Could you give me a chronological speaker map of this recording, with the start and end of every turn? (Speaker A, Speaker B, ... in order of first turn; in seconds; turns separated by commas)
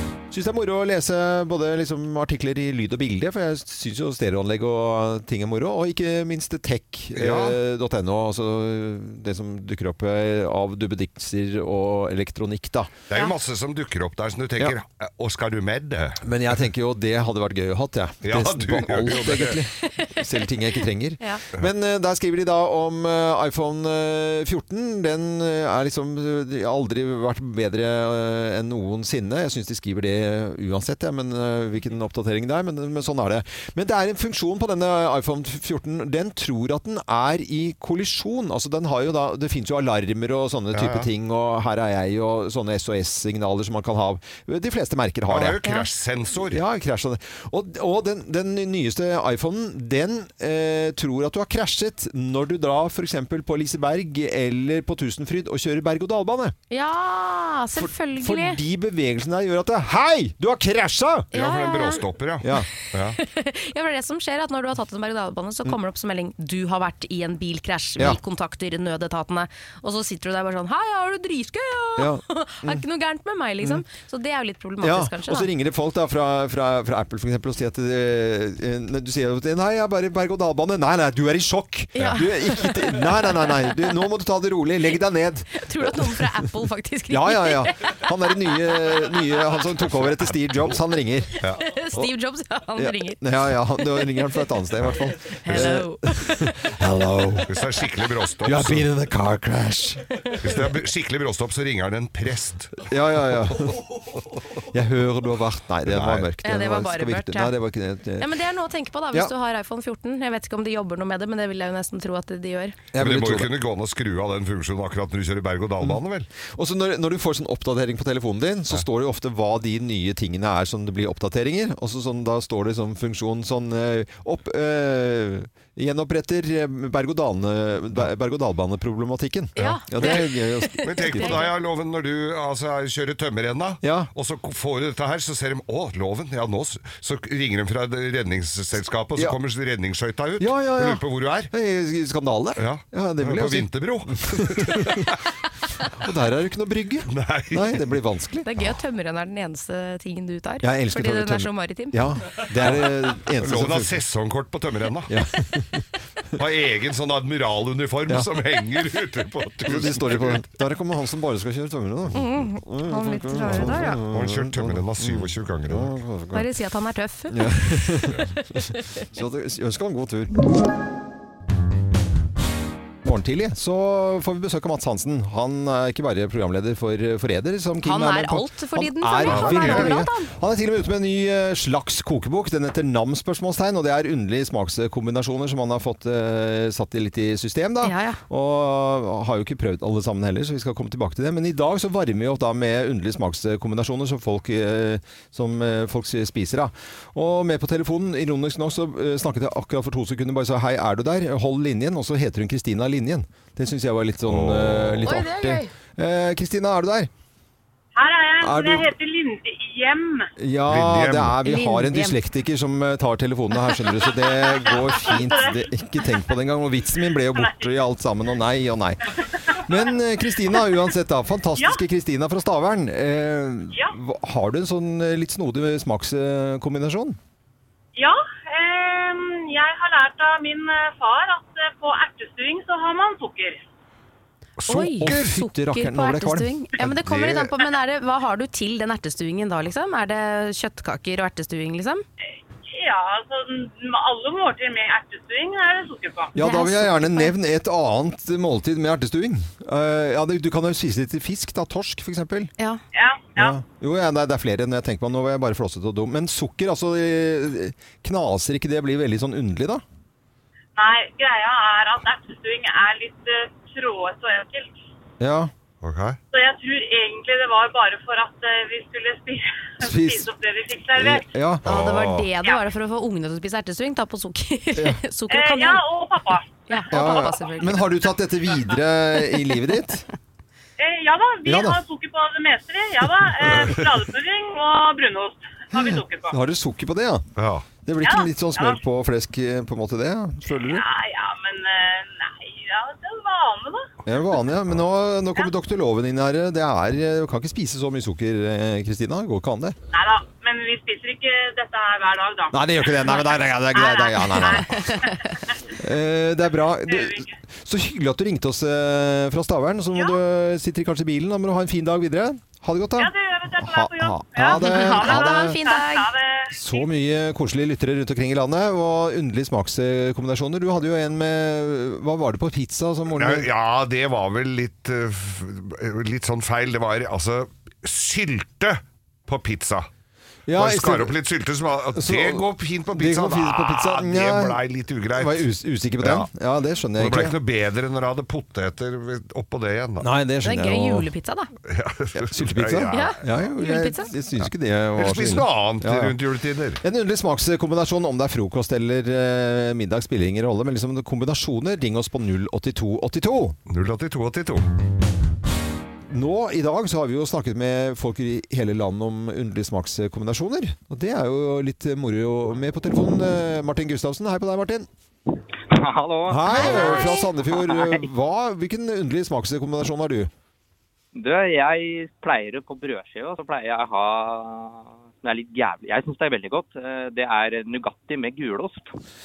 Speaker A: 0.3-12.9, Speaker B: 7.2-7.6, Speaker B: 13.1-16.2, Speaker A: 16.2-45.6, Speaker B: 18.2-19.6, Speaker C: 19.9-20.3, Speaker B: 40.7-41.1, Speaker B: 45.3-46.6, Speaker C: 45.6-45.9, Speaker A: 46.5-56.5, Speaker C: 56.7-58.6, Speaker A: 57.8-61.3, Speaker C: 61.3-62.1, Speaker B: 61.3-63.2, Speaker A: 62.4-62.7, Speaker C: 62.8-75.5, Speaker A: 72.0-72.8, Speaker A: 74.8-86.3, Speaker C: 81.9-83.7, Speaker C: 85.5-89.0, Speaker A: 87.1-91.4, Speaker B: 89.8-90.7, Speaker C: 91.6-94.4, Speaker A: 92.8-97.5, Speaker C: 95.4-96.7, Speaker B: 97.4-98.9, Speaker A: 98.4-100.1, Speaker B: 100.4-102.9, Speaker A: 102.9-103.8, Speaker A: 104.7-108.3, Speaker B: 105.9-106.3, Speaker C: 106.4-107.5, Speaker C: 108.2-112.8, Speaker A: 112.9-113.5, Speaker B: 113.0-116.3, Speaker A: 116.5-131.4, Speaker C: 129.6-131.6, Speaker B: 130.0-130.3, Speaker B: 130.8-141.5, Speaker A: 133.8-134.1, Speaker A: 140.4-145.1, Speaker B: 142.6-145.1, Speaker A: 146.0-148.5, Speaker B: 147.1-147.9, Speaker C: 148.4-152.0, Speaker A: 150.6-154.0, Speaker B: 153.4-155.1, Speaker A: 155.1-155.8, Speaker B: 156.4-160.4, Speaker A: 159.7-166.5, Speaker C: 162.1-164.0, Speaker B: 163.5-165.9, Speaker C: 166.3-169.0, Speaker A: 167.3-170.4, Speaker A: 173.0-207.1, Speaker C: 177.8-180.3, Speaker B: 179.2-180.0, Speaker C: 187.8-188.2, Speaker B: 204.3-205.2, Speaker C: 205.1-205.7, Speaker D: 207.9-210.3, Speaker A: 208.4-208.9, Speaker A: 210.4-227.2, Speaker B: 210.7-211.4, Speaker C: 211.4-212.2, Speaker D: 214.3-215.7, Speaker D: 217.3-217.7, Speaker D: 227.9-233.6, Speaker C: 234.7-242.0, Speaker A: 234.7-236.9, Speaker B: 237.0-237.5, Speaker D: 242.6-246.3, Speaker A: 246.3-252.5, Speaker C: 246.4-247.3, Speaker D: 252.9-253.6, Speaker A: 253.3-259.8, Speaker D: 260.8-264.8, Speaker A: 265.2-265.5, Speaker B: 265.8-266.2, Speaker D: 266.3-271.3, Speaker A: 269.8-270.3, Speaker A: 270.9-271.6, Speaker B: 271.6-272.2, Speaker C: 271.6-275.8, Speaker A: 274.7-275.0, Speaker D: 275.3-277.5, Speaker C: 276.7-277.9, Speaker A: 276.9-280.0, Speaker D: 280.8-286.3, Speaker A: 281.4-281.8, Speaker B: 283.5-283.8, Speaker A: 285.7-287.3, Speaker B: 287.4-287.6, Speaker A: 287.8-290.8, Speaker D: 288.0-288.8, Speaker D: 290.5-293.9, Speaker A: 294.1-299.8, Speaker D: 299.9-305.1, Speaker A: 302.5-305.0, Speaker A: 305.8-315.6, Speaker D: 306.9-307.4, Speaker D: 313.0-316.8, Speaker C: 314.5-316.1, Speaker A: 316.5-323.5, Speaker B: 323.1-329.9, Speaker A: 330.5-331.1, Speaker B: 330.6-335.5, Speaker A: 331.9-334.6, Speaker A: 335.1-337.4, Speaker B: 336.0-336.3, Speaker B: 337.0-340.1, Speaker A: 340.0-341.1, Speaker C: 340.4-341.5, Speaker B: 341.7-343.2, Speaker A: 342.1-346.2, Speaker C: 342.9-344.1, Speaker B: 344.4-346.8, Speaker A: 346.8-353.6, Speaker B: 353.7-354.7, Speaker A: 356.1-364.9, Speaker E: 365.7-368.1, Speaker A: 366.3-370.3, Speaker C: 366.4-367.3, Speaker E: 371.1-378.9